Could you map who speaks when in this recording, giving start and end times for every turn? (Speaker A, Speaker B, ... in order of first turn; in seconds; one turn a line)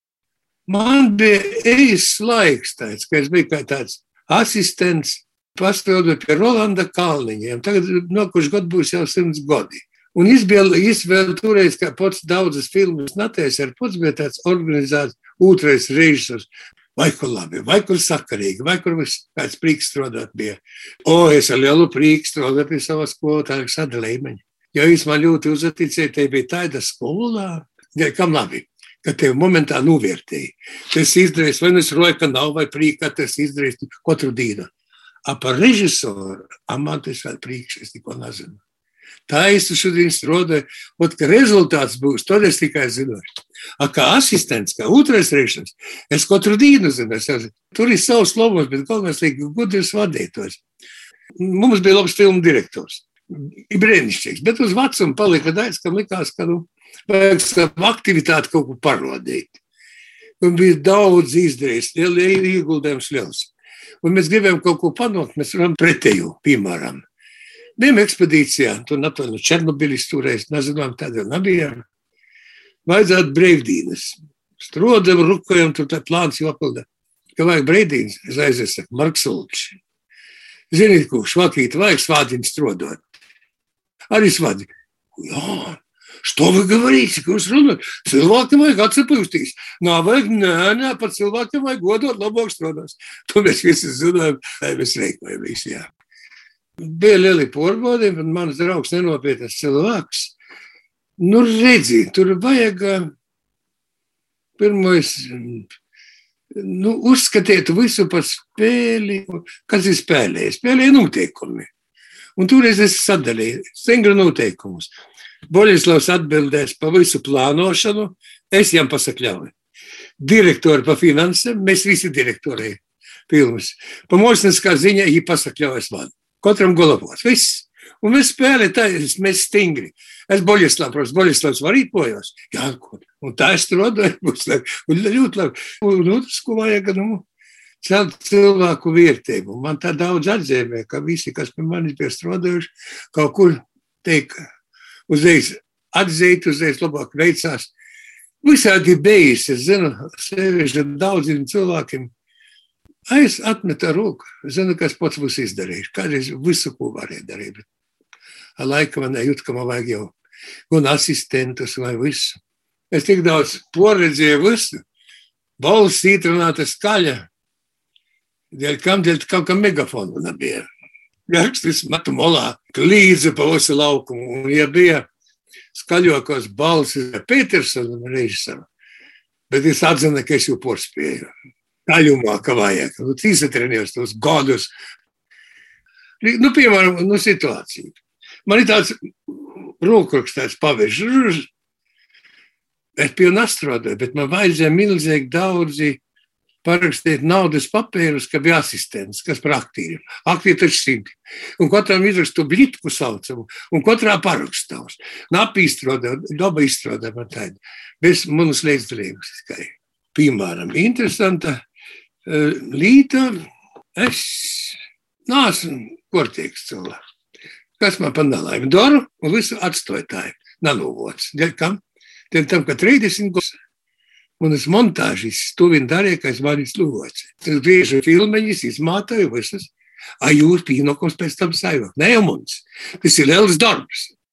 Speaker A: 0.7-34.7
Speaker A: 35.3-38.6
Speaker A: 39.3-43.2
Speaker A: 43.8-50.6
Speaker A: 51.4-59.6
Speaker A: 60.4-63.5
Speaker A: 64.0-67.0
Speaker A: 67.8-71.8
Speaker A: 72.9-76.8
Speaker A: 77.4-79.8
Speaker A: 80.7-83.0
Speaker A: 84.1-95.9
Speaker A: 96.8-100.3
Speaker A: 101.2-103.1
Speaker A: 104.6-105.7
Speaker A: 106.5-111.7
Speaker A: 112.4-114.9
Speaker A: 115.5-119.5
Speaker A: 120.2-137.2
Speaker A: 137.8-144.4
Speaker A: 145.1-147.7
Speaker A: 148.4-152.1
Speaker A: 153.1-157.7
Speaker A: 158.6-160.1
Speaker A: 160.7-162.4
Speaker A: 162.9-164.8
Speaker A: 165.6-167.3
Speaker A: 168.5-170.7
Speaker A: 171.3-175.1
Speaker A: 175.7-178.7
Speaker A: 179.5-181.3
Speaker A: 181.9-184.7
Speaker A: 186.2-191.5
Speaker A: 193.0-196.0
Speaker A: 196.6-211.6
Speaker A: 212.3-213.4
Speaker A: 214.0-217.0
Speaker A: 217.8-221.8
Speaker A: 222.3-223.6
Speaker A: 224.4-234.1